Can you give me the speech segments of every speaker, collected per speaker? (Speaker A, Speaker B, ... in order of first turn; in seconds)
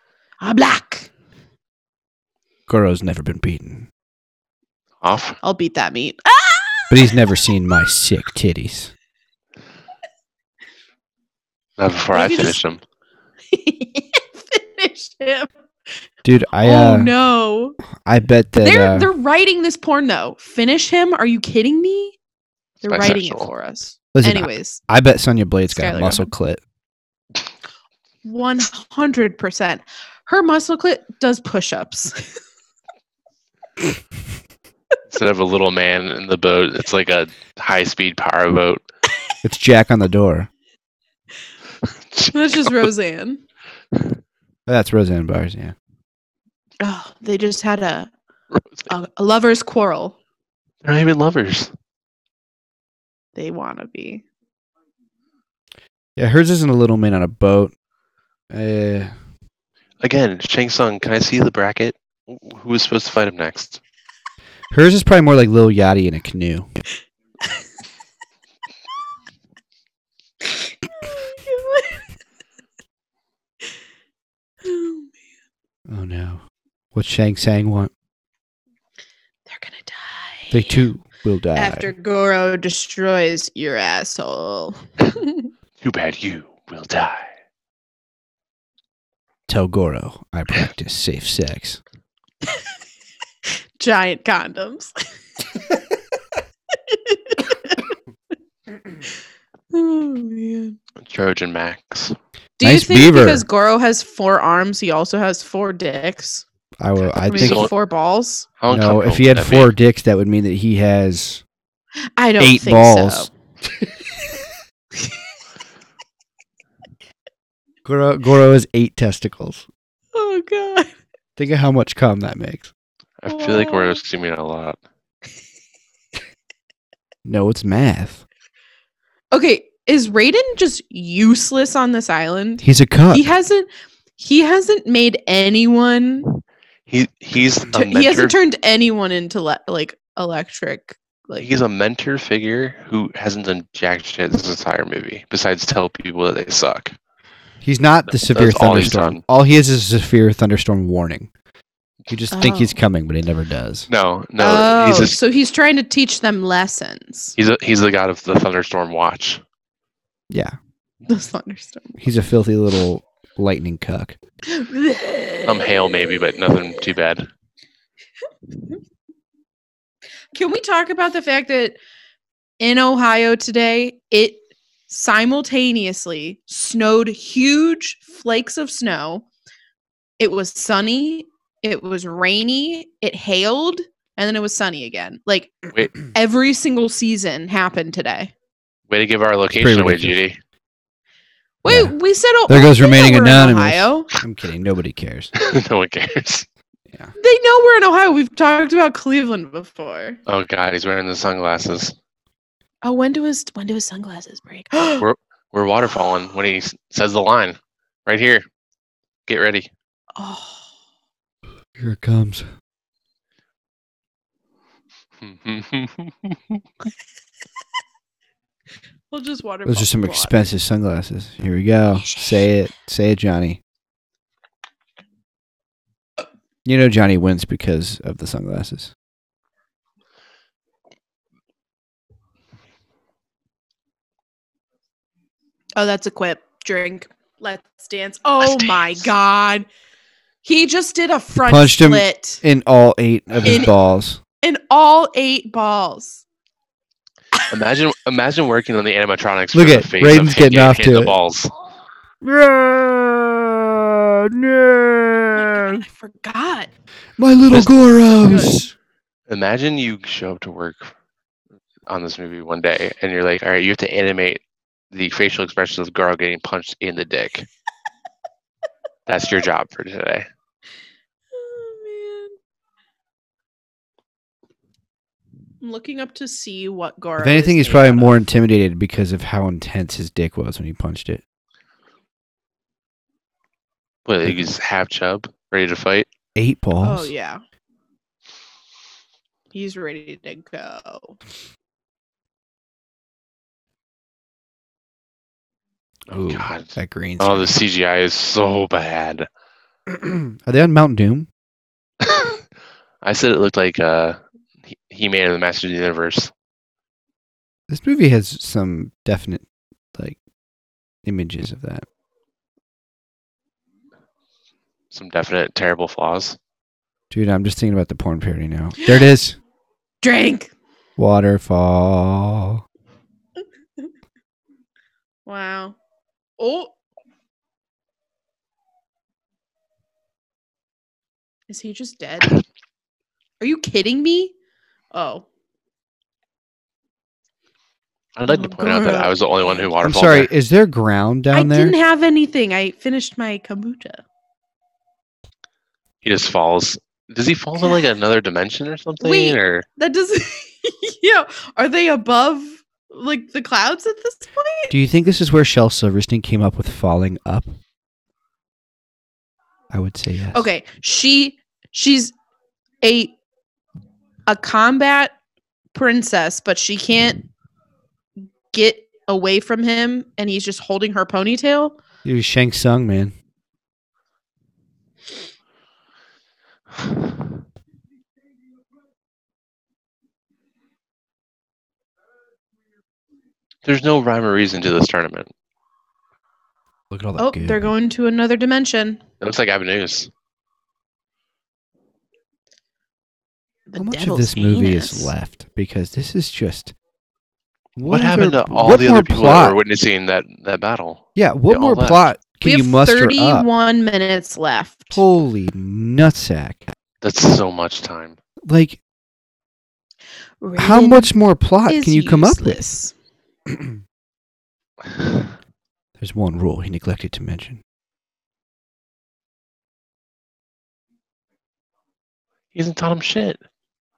Speaker A: 0.4-1.1, 5.4-7.5, 12.1-12.6, 13.5-15.5, 16.6-17.8, 18.6-22.1, 22.8-24.8, 25.7-26.3, 28.2-32.3, 42.3-43.4, 46.8-48.1, 48.9-50.2, 53.3-54.2, 70.4-72.1, 74.6-75.1, 79.5-80.8, 81.5-85.5, 93.8-95.8, 96.7-97.9, 99.7-100.8, 102.6-106.4, 107.3-108.5, 112.2-113.3, 120.1-120.9, 123.3-124.0, 129.3-136.4, 137.7-141.5, 152.3-152.8, 154.4-157.3, 161.1-162.0, 164.5-165.8, 170.3-171.8, 172.6-179.2, 180.2-188.3, 191.6-194.1, 197.2-200.2, 202.8-205.1, 210.2-210.7, 219.1-220.4, 235.8-239.7, 240.4-242.4, 243.4-243.7, 244.4-246.2, 255.3-256.7, 258.2-258.6, 271.3-272.4, 275.6-278.2, 286.8-287.4, 289.5-291.2, 320.0-320.5, 325.2-325.8, 326.4-326.7, 331.5-332.4, 333.4-334.3, 334.9-335.2, 338.3-339.7, 341.3-344.0, 349.0-354.7, 360.3-362.1, 362.8-363.1, 364.3-365.1, 365.7-367.2, 368.5-371.8, 387.2-389.0, 393.7-395.1, 402.4-405.0, 410.4-411.1, 411.7-412.9
Speaker B: 2.7-3.9, 6.9-8.9, 16.2-17.1, 18.0-19.1, 24.1-26.6, 39.4-40.5, 44.7-45.7, 56.1-57.7, 58.5-59.1, 64.7-66.7, 75.9-76.4, 76.9-77.9, 80.5-81.9, 89.5-91.8, 102.6-103.4, 106.8-107.7, 108.7-111.4, 112.4-113.3, 117.8-119.7, 121.4-122.7, 127.2-128.2, 132.6-133.2, 147.6-151.3, 152.1-153.9, 160.3-160.6, 162.0-164.2, 189.6-190.2, 191.7-191.9, 192.5-195.3, 211.8-212.5, 219.7-223.6, 226.6-228.9, 241.3-244.2, 249.5-251.1, 252.2-255.8, 257.2-258.7, 277.2-281.2, 286.4-287.1, 296.1-297.5, 299.9-301.3, 307.7-310.2, 311.0-311.9, 317.1-319.4, 321.0-322.6, 339.8-341.7, 354.7-357.5, 359.7-360.4, 372.0-373.1, 386.9-387.7, 393.8-396.7, 397.8-399.6, 401.1-403.5, 404.9-406.7, 408.4-408.8, 410.6-412.6, 413.5-413.8, 416.0-417.6
Speaker C: 5.0-5.4, 11.8-12.8, 22.8-23.5, 35.1-38.8, 41.8-42.8, 48.5-48.9, 50.8-51.7, 60.0-63.8, 85.8-87.3, 101.0-102.2, 107.3-107.7, 108.6-109.7, 123.2-124.8, 136.9-138.3, 141.4-146.9, 148.2-149.2, 153.9-155.2, 157.4-159.4, 165.4-167.3, 188.9-190.4, 195.3-196.4, 200.3-201.9, 205.0-208.4, 209.3-209.7, 215.2-216.7, 238.4-239.1, 247.5-251.5, 259.3-260.9, 261.9-267.5, 269.1-270.3, 284.0-286.1, 296.1-299.3, 302.0-302.4, 303.0-306.3, 314.9-316.4, 338.1-340.3, 346.0-349.6, 383.6-385.3, 389.2-390.1, 397.9-402.1, 407.0-408.2, 422.5-423.4